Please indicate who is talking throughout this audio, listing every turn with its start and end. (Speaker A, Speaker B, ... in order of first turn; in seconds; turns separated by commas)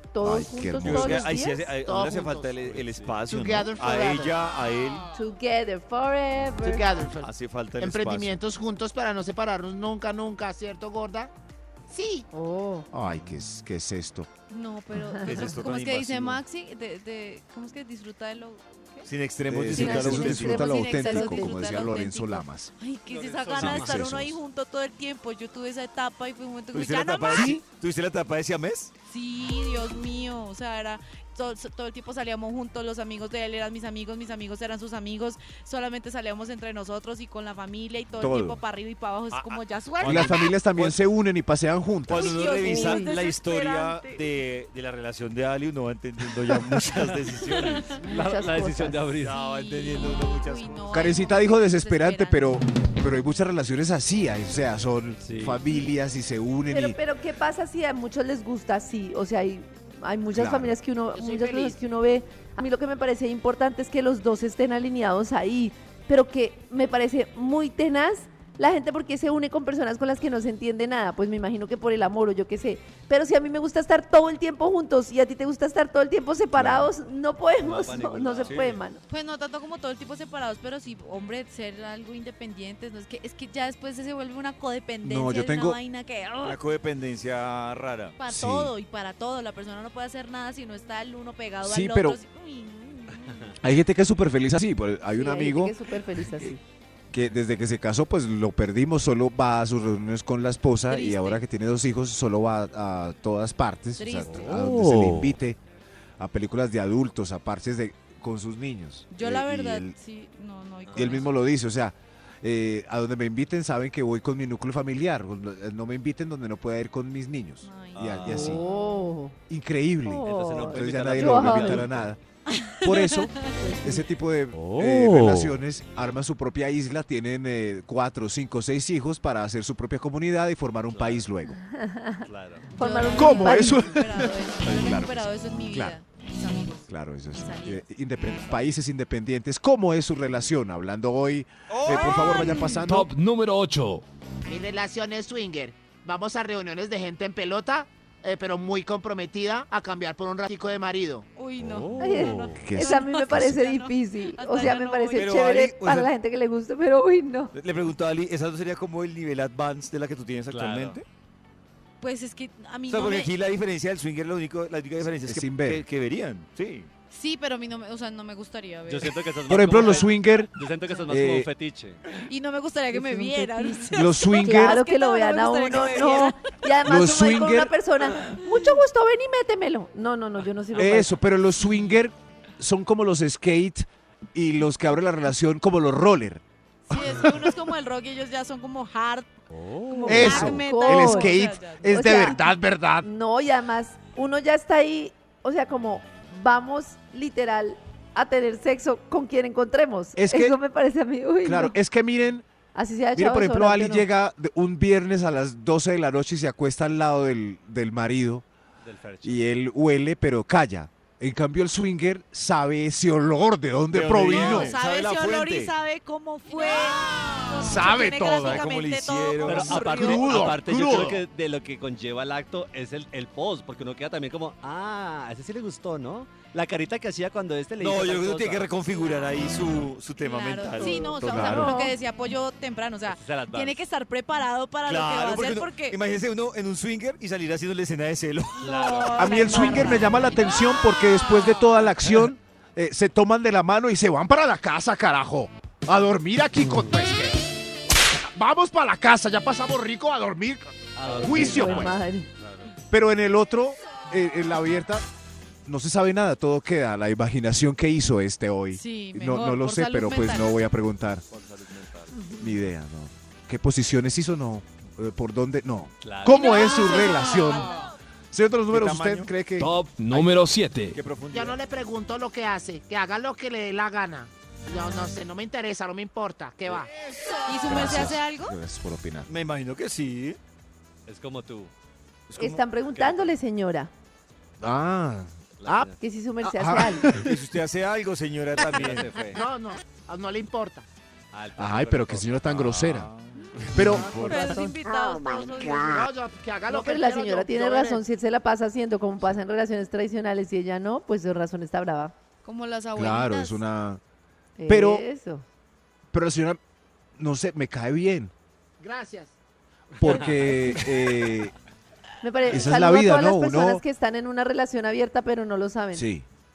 Speaker A: 0.1-1.7, Speaker B: 0.2-1.3, Speaker C: 0.8-5.1, Speaker D: 1.8-2.5, Speaker E: 2.7-3.2, Speaker D: 3.3-4.3, Speaker A: 5.2-6.9, Speaker D: 6.6-11.3, Speaker C: 7.2-8.4, Speaker D: 11.9-12.3, Speaker A: 12.3-12.9, Speaker B: 12.9-14.3, Speaker F: 14.5-19.1, Speaker C: 15.2-16.4, Speaker C: 19.1-20.8, Speaker B: 19.5-22.7, Speaker A: 19.8-21.6, Speaker F: 19.8-27.6, Speaker E: 23.1-24.1, Speaker C: 23.5-23.9, Speaker B: 23.6-24.4, Speaker C: 26.7-28.9, Speaker F: 29.1-40.5, Speaker B: 38.2-38.6, Speaker C: 39.3-41.0, Speaker B: 40.0-42.3, Speaker C: 42.1-48.0, Speaker F: 42.1-44.2, Speaker A: 42.6-43.1, Speaker F: 47.7-48.0, Speaker A: 48.0-49.0, Speaker E: 48.0-49.4, Speaker C: 49.2-51.1, Speaker F: 49.3-52.6, Speaker B: 50.9-57.0, Speaker E: 55.2-55.6, Speaker A: 56.7-79.0, Speaker B: 60.3-60.8, Speaker D: 61.1-61.8, Speaker B: 76.6-76.9, Speaker E: 77.6-78.8, Speaker C: 78.5-78.7, Speaker F: 79.1-86.6, Speaker B: 85.0-85.8, Speaker C: 86.4-88.2, Speaker F: 88.2-93.5, Speaker B: 88.3-88.7, Speaker B: 91.6-92.2, Speaker B: 93.6-95.8, Speaker A: 95.1-96.6, Speaker B: 97.1-105.6, Speaker F: 100.9-101.4, Speaker F: 104.0-104.7, Speaker E: 104.2-104.9, Speaker B: 106.2-110.0, Speaker F: 109.1-111.3, Speaker E: 110.9-111.3, Speaker B: 110.9-118.6, Speaker F: 117.6-119.0, Speaker E: 118.0-118.6, Speaker A: 118.3-119.3, Speaker B: 119.5-122.2, Speaker A: 120.0-121.8, Speaker E: 120.3-122.1, Speaker F: 122.5-123.6, Speaker B: 122.8-131.6, Speaker A: 123.6-124.0, Speaker E: 130.9-131.2, Speaker A: 131.6-133.9, Speaker E: 132.2-132.7, Speaker F: 132.7-137.8, Speaker B: 133.2-136.0, Speaker B: 136.9-143.1, Speaker C: 141.7-142.5, Speaker F: 141.9-142.8, Speaker G: 142.8-144.0, Speaker D: 144.5-151.3, Speaker F: 151.4-155.4, Speaker E: 151.7-152.5, Speaker A: 152.0-157.5, Speaker B: 152.6-153.6, Speaker C: 155.1-156.1, Speaker C: 157.5-161.1, Speaker E: 160.5-161.0, Speaker F: 162.0-163.3, Speaker C: 162.9-166.9, Speaker B: 165.2-165.8, Speaker F: 167.1-170.0, Speaker E: 168.9-172.2, Speaker B: 169.5-170.5, Speaker F: 170.9-171.2, Speaker B: 171.1-171.5, Speaker F: 172.3-176.4, Speaker A: 172.9-181.1, Speaker B: 173.9-174.8, Speaker B: 176.8-177.8, Speaker B: 180.8-186.4, Speaker F: 186.9-192.3, Speaker B: 186.9-187.4, Speaker E: 189.5-190.3, Speaker A: 190.1-191.4, Speaker B: 190.1-193.1, Speaker A: 191.9-192.4, Speaker A: 193.0-201.8, Speaker B: 200.2-200.6, Speaker B: 201.4-202.5, Speaker A: 202.8-204.1, Speaker B: 203.1-208.4, Speaker E: 208.8-209.4, Speaker B: 209.2-214.7, Speaker C: 213.9-215.7, Speaker F: 214.3-220.3, Speaker D: 217.6-218.6, Speaker C: 218.4-220.6, Speaker E: 219.4-228.7, Speaker D: 219.8-221.1, Speaker B: 220.4-221.2, Speaker C: 227.8-231.7, Speaker F: 230.2-236.0, Speaker A: 230.8-231.9, Speaker E: 233.1-233.8, Speaker C: 234.9-239.2, Speaker E: 238.6-239.9, Speaker F: 238.7-240.4, Speaker B: 239.2-247.4, Speaker B: 248.3-252.0, Speaker E: 251.0-252.7, Speaker A: 251.2-252.3, Speaker B: 252.9-255.0, Speaker B: 255.7-261.2, Speaker F: 258.7-260.6, Speaker E: 261.3-262.2, Speaker B: 262.4-267.8, Speaker E: 266.0-266.9, Speaker F: 266.3-267.9, Speaker B: 268.3-269.7, Speaker C: 268.7-269.3, Speaker G: 269.6-271.0, Speaker C: 270.1-270.4, Speaker C: 270.9-271.6, Speaker D: 271.3-276.9, Speaker F: 277.5-278.6, Speaker B: 277.7-279.3, Speaker C: 279.3-280.4, Speaker E: 281.1-281.7, Speaker C: 282.3-282.6, Speaker A: 282.4-283.9, Speaker E: 282.9-283.3, Speaker B: 284.6-285.9, Speaker E: 285.6-286.0, Speaker A: 286.0-287.1, Speaker B: 286.4-287.4, Speaker C: 287.2-289.4, Speaker E: 288.6-289.4, Speaker D: 289.3-290.9, Speaker E: 291.3-292.7, Speaker B: 291.6-293.1, Speaker C: 292.5-294.2, Speaker B: 293.7-294.6, Speaker D: 294.0-294.3, Speaker F: 294.2-296.0, Speaker D: 295.8-298.0, Speaker A: 296.7-302.1, Speaker F: 302.4-303.6, Speaker B: 302.9-304.0, Speaker A: 304.6-305.4, Speaker B: 304.7-305.1, Speaker B: 306.1-306.6, Speaker B: 307.2-308.3, Speaker D: 308.8-309.3, Speaker E: 310.0-311.0, Speaker B: 310.0-311.5, Speaker A: 312.2-316.1, Speaker B: 312.5-313.8, Speaker B: 315.9-316.2